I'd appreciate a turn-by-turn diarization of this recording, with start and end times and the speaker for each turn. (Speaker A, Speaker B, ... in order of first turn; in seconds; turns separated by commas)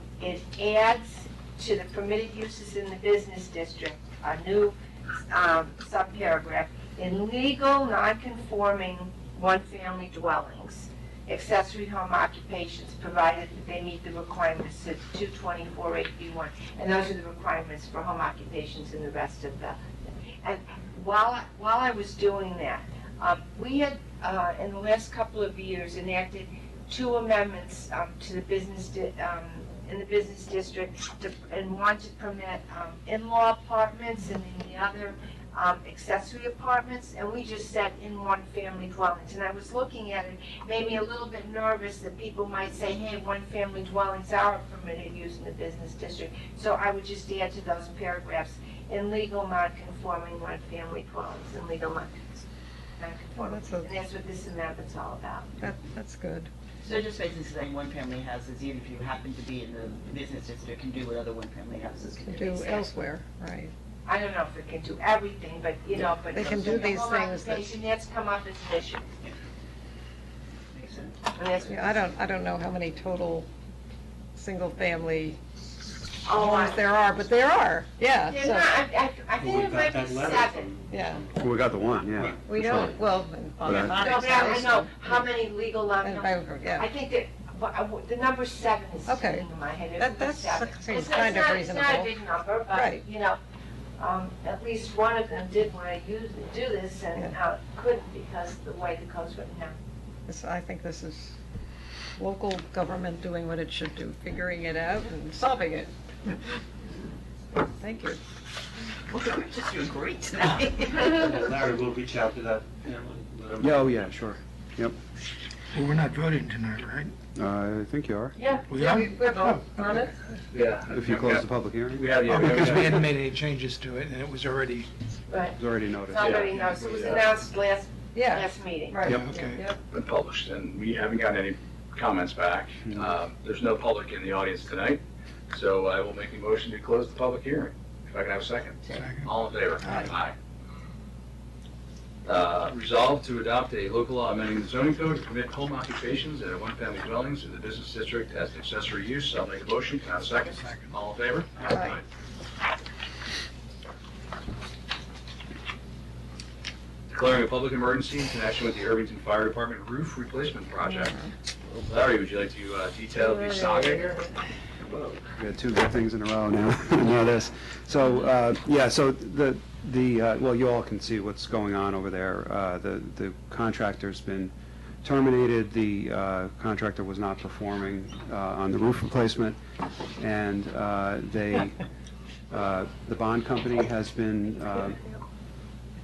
Speaker A: 0.2-4.7, Speaker A: 5.3-19.8, Speaker A: 20.4-52.5, Speaker A: 53.0-55.5, Speaker B: 53.4-53.9, Speaker B: 55.6-56.5, Speaker C: 56.8-62.9, Speaker B: 62.2-63.7, Speaker A: 64.0-69.0, Speaker B: 66.3-67.8, Speaker C: 70.7-71.3, Speaker A: 71.3-72.0, Speaker B: 71.7-73.5, Speaker B: 74.3-75.4, Speaker A: 76.2-76.8, Speaker B: 76.3-78.8, Speaker A: 78.2-80.7, Speaker D: 79.4-81.4, Speaker B: 80.9-81.3, Speaker E: 81.3-83.0, Speaker D: 82.1-82.4, Speaker B: 82.4-85.3, Speaker E: 83.6-84.0, Speaker A: 83.8-93.4, Speaker B: 86.0-86.9, Speaker B: 89.1-92.2, Speaker B: 92.7-93.0, Speaker A: 94.0-99.7, Speaker B: 100.3-101.4, Speaker B: 102.2-106.5, Speaker B: 107.8-108.2, Speaker C: 108.9-111.2, Speaker D: 111.2-113.9, Speaker E: 113.6-115.0, Speaker F: 115.7-117.1, Speaker E: 117.3-118.3, Speaker A: 118.4-118.8, Speaker F: 118.7-119.7, Speaker B: 118.7-120.1, Speaker G: 120.5-123.0, Speaker E: 120.9-123.0, Speaker F: 122.2-124.9, Speaker A: 125.3-125.6, Speaker E: 125.6-126.5, Speaker A: 126.1-129.0, Speaker G: 126.2-127.3, Speaker B: 128.2-129.8, Speaker F: 129.0-129.7, Speaker G: 129.9-140.3, Speaker E: 132.9-133.2, Speaker F: 138.9-140.1, Speaker G: 142.2-152.0, Speaker F: 150.4-151.0, Speaker G: 157.1-161.3, Speaker B: 160.9-161.2, Speaker G: 161.8-164.2, Speaker G: 164.9-165.2, Speaker E: 165.4-179.6, Speaker E: 180.2-181.8, Speaker E: 182.5-185.0